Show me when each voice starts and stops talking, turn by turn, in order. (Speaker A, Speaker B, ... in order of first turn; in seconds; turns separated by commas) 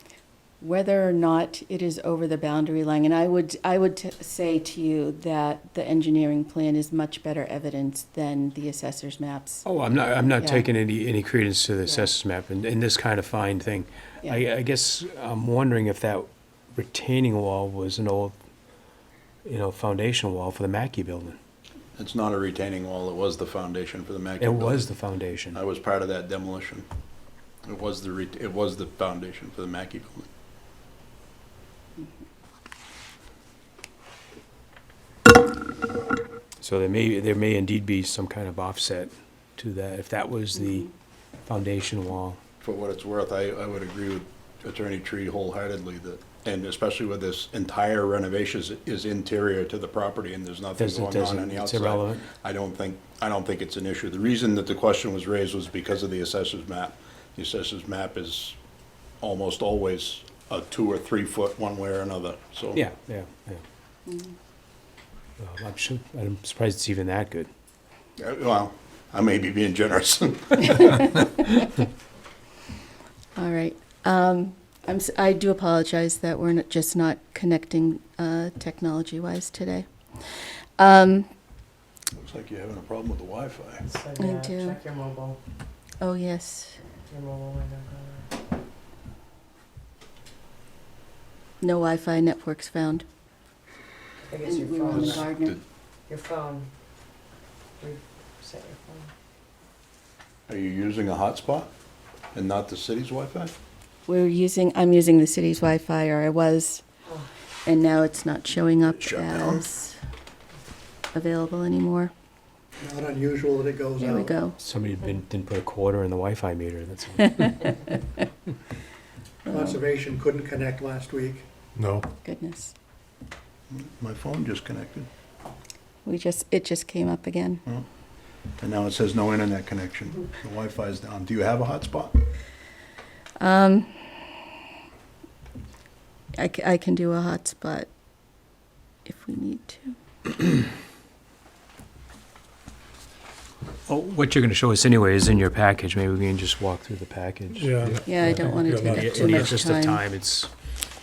Speaker A: 0.6-9.6, Speaker B: 9.6-18.3, Speaker B: 19.4-21.4, Speaker C: 21.9-24.9, Speaker B: 24.4-25.6, Speaker C: 25.5-26.9, Speaker C: 27.6-30.3, Speaker B: 36.6-40.9, Speaker A: 40.5-40.9, Speaker B: 41.5-42.4, Speaker C: 42.6-58.5, Speaker B: 50.8-52.3, Speaker C: 59.2-62.8, Speaker B: 62.7-63.6, Speaker A: 64.1-64.3, Speaker B: 65.4-67.5, Speaker C: 68.2-71.1, Speaker A: 73.3-81.3, Speaker C: 82.2-83.8, Speaker D: 83.8-85.4, Speaker A: 84.2-84.8, Speaker A: 86.0-86.8, Speaker D: 87.1-88.3, Speaker A: 91.6-93.0, Speaker D: 94.2-95.3, Speaker A: 94.4-95.6, Speaker D: 96.1-96.7, Speaker D: 97.8-99.1, Speaker C: 100.5-101.7, Speaker C: 102.3-103.5, Speaker A: 104.1-106.8, Speaker A: 107.6-110.0, Speaker C: 108.9-109.6, Speaker A: 111.1-112.1, Speaker E: 112.8-114.4, Speaker A: 114.0-114.6, Speaker B: 114.6-117.7, Speaker A: 119.4-119.8, Speaker E: 119.5-121.5, Speaker A: 122.2-122.7, Speaker C: 123.7-125.1, Speaker A: 126.0-127.6, Speaker C: 128.6-132.2, Speaker A: 133.4-134.1, Speaker A: 136.3-137.9, Speaker A: 139.0-140.0, Speaker B: 143.9-147.7, Speaker F: 147.5-149.4, Speaker A: 148.1-150.0, Speaker B: 148.8-150.5